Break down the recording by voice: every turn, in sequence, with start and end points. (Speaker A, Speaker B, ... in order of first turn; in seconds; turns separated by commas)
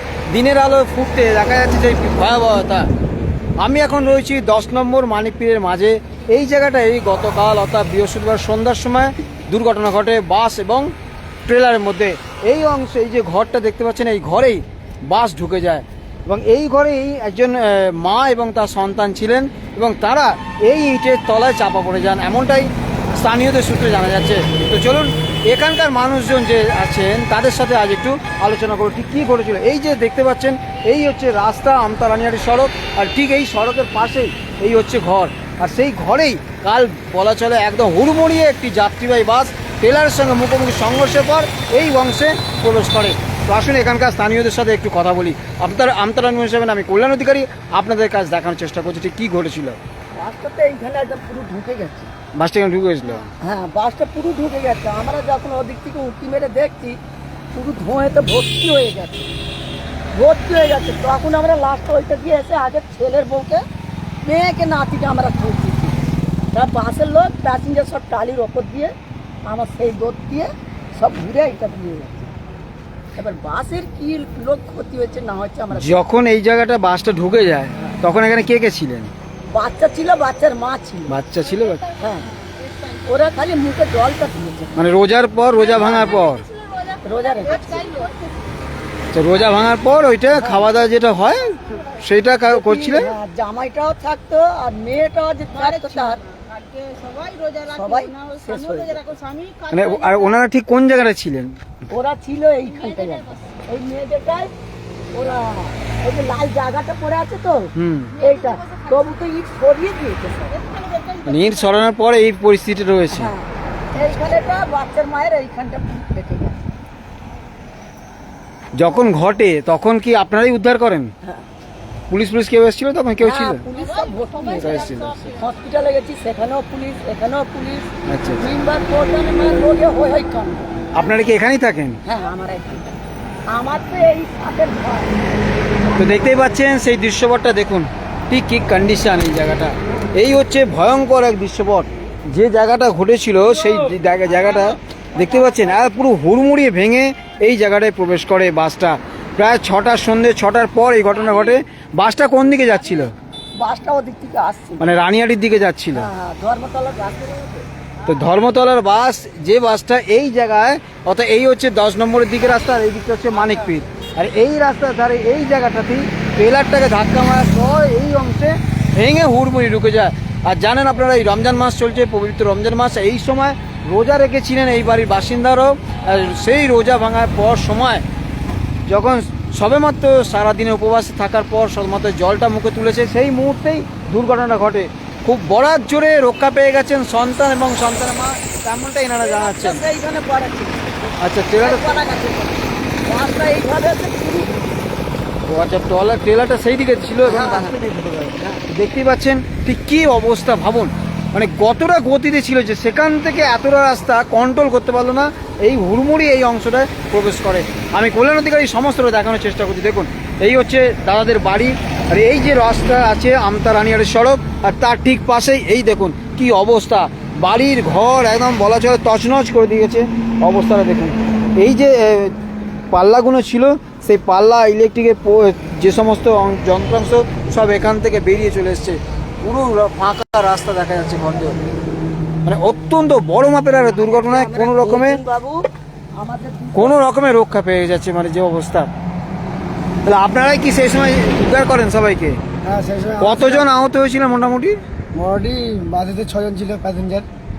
Speaker A: 0.3-2.9, Speaker A: 3.6-10.9, Speaker A: 11.4-49.8, Speaker B: 50.1-52.1, Speaker A: 52.3-53.3, Speaker B: 53.4-57.0, Speaker B: 57.5-59.3, Speaker B: 60.1-63.6, Speaker B: 64.2-68.9, Speaker B: 69.4-72.3, Speaker B: 73.2-76.0, Speaker A: 75.7-79.1, Speaker B: 79.5-81.2, Speaker A: 81.1-81.8, Speaker B: 82.0-82.3, Speaker B: 83.0-84.8, Speaker A: 84.8-86.5, Speaker B: 87.0-88.1, Speaker A: 89.1-93.1, Speaker B: 90.3-90.7, Speaker B: 92.5-96.2, Speaker B: 97.5-99.2, Speaker A: 99.7-101.6, Speaker B: 101.9-104.5, Speaker B: 105.1-110.8, Speaker A: 107.7-108.2, Speaker A: 111.2-113.3, Speaker B: 113.1-116.6, Speaker A: 118.8-121.1, Speaker A: 122.1-123.6, Speaker B: 123.2-130.8, Speaker A: 124.6-125.4, Speaker A: 128.1-128.5, Speaker A: 130.9-132.0, Speaker B: 132.1-132.9, Speaker B: 133.5-135.3, Speaker A: 136.0-153.1, Speaker B: 153.6-154.8, Speaker A: 154.8-156.1, Speaker B: 155.9-157.7, Speaker A: 158.1-178.0, Speaker A: 178.9-189.8, Speaker B: 189.2-194.8, Speaker A: 191.2-192.0, Speaker A: 195.5-222.3, Speaker B: 197.2-197.8, Speaker B: 198.4-198.6, Speaker A: 222.9-231.6, Speaker A: 232.4-235.2, Speaker B: 233.8-237.0, Speaker A: 236.7-238.9, Speaker A: 240.0-242.4, Speaker C: 242.6-243.7, Speaker A: 243.2-244.8, Speaker C: 245.1-247.3